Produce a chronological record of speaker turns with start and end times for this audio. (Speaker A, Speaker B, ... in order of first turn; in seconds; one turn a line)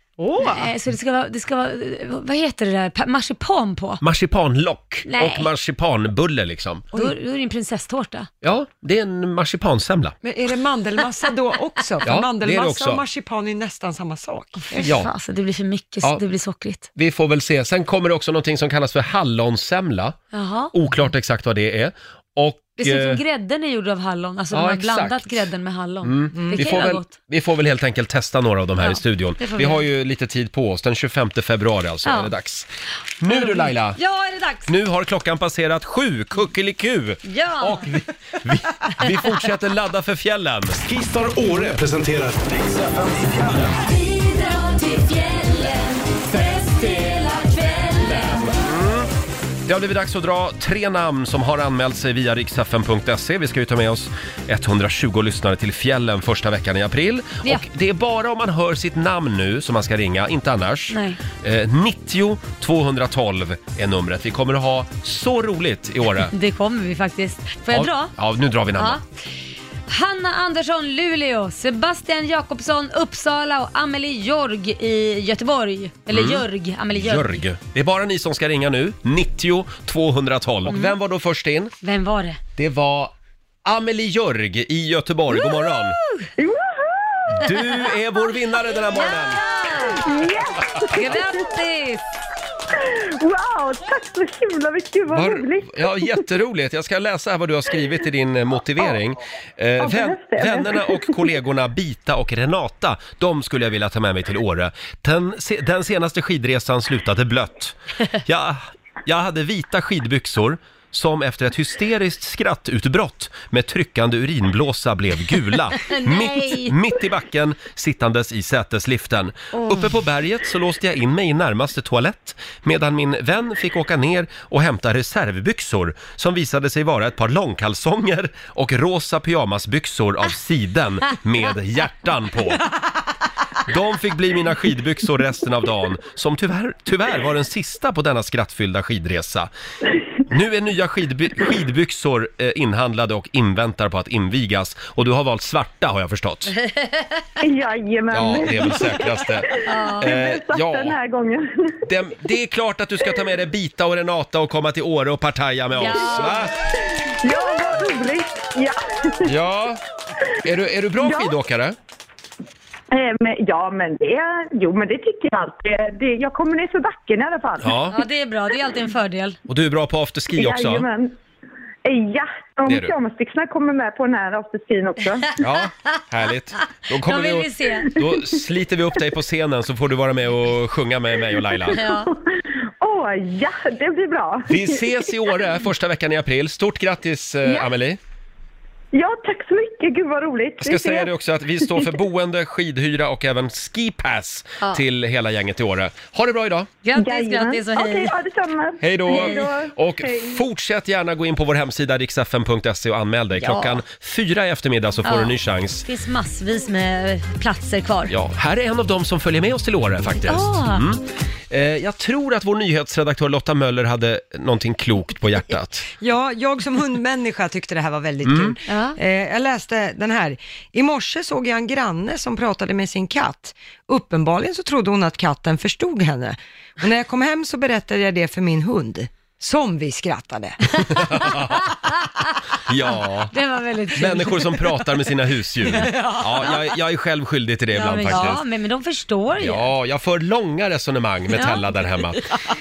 Speaker A: 0.2-0.7
Speaker B: 0.4-4.0
Speaker C: 4.0-6.9
Speaker B: 5.1-5.5
Speaker B: 6.9-8.3
Speaker C: 8.4-10.2
Speaker A: 10.2-14.9
Speaker C: 12.1-13.0
Speaker B: 14.7-16.9
Speaker C: 14.8-15.1
Speaker C: 17.0-20.2
Speaker B: 20.3-20.7
Speaker C: 20.7-23.2
Speaker B: 22.8-27.1
Speaker C: 24.5-25.3
Speaker C: 26.0-32.7
Speaker A: 26.4-26.6
Speaker B: 28.8-29.9
Speaker B: 32.0-32.3
Speaker C: 33.2-34.0
Speaker B: 33.3-34.7
Speaker C: 34.7-40.8
Speaker B: 37.3-37.9
Speaker D: 40.9-43.6
Speaker B: 43.9-48.5
Speaker C: 48.6-49.1
Speaker C: 49.7-66.3
Speaker B: 60.9-61.2
Speaker B: 66.3-68.1
Speaker C: 67.7-69.0
Speaker B: 68.8-69.0
Speaker B: 69.9-77.4
Speaker C: 76.1-76.4
Speaker C: 77.0-81.7
Speaker B: 80.7-81.0
Speaker B: 81.8-82.4
Speaker C: 82.6-83.1
Speaker C: 83.7-86.0
Speaker B: 85.3-86.3
Speaker E: 86.4-87.5
Speaker C: 87.3-89.4
Speaker B: 88.9-90.1
Speaker E: 89.8-91.4
Speaker B: 90.9-92.0
Speaker E: 92.7-96.2
Speaker C: 95.1-132.7
Speaker E: 99.8-101.2
Speaker B: 115.8-116.8
Speaker B: 119.5-119.8
Speaker C: 133.7-139.5
Speaker C: 140.3-146.6
Speaker E: 147.4-151.8
Speaker C: 148.1-151.0
Speaker B: 149.7-150.1
Speaker C: 151.9-156.5
Speaker B: 155.8-156.4
Speaker E: 156.8-159.3
Speaker C: 159.2-159.8
Speaker C: 160.4-161.8
Speaker E: 161.0-161.3
Speaker E: 162.9-167.8
Speaker C: 167.6-168.0
Speaker B: 167.9-169.4
Speaker C: 169.5-170.9
Speaker E: 170.3-171.2
Speaker E: 171.8-175.3
Speaker C: 172.7-172.9
Speaker C: 175.4-181.8
Speaker B: 177.1-177.9
Speaker E: 181.7-182.2
Speaker B: 181.7-182.1
Speaker E: 182.8-184.9
Speaker C: 184.5-188.0
Speaker E: 187.4-187.7
Speaker E: 188.9-191.1
Speaker C: 190.6-196.7
Speaker B: 196.8-198.1
Speaker E: 196.9-200.4
Speaker C: 198.8-205.8
Speaker B: 199.1-199.4
Speaker B: 203.4-203.8
Speaker B: 205.0-208.1
Speaker C: 208.1-215.9
Speaker B: 210.2-210.8
Speaker A: 216.0-231.0
Speaker C: 218.2-218.6
Speaker B: 218.7-219.0
Speaker C: 230.8-231.7
Speaker C: 232.7-233.3
Speaker B: 233.3-234.6
Speaker C: 233.9-238.4
Speaker A: 235.8-236.2
Speaker B: 237.7-239.7
Speaker C: 239.4-242.2
Speaker B: 241.3-241.6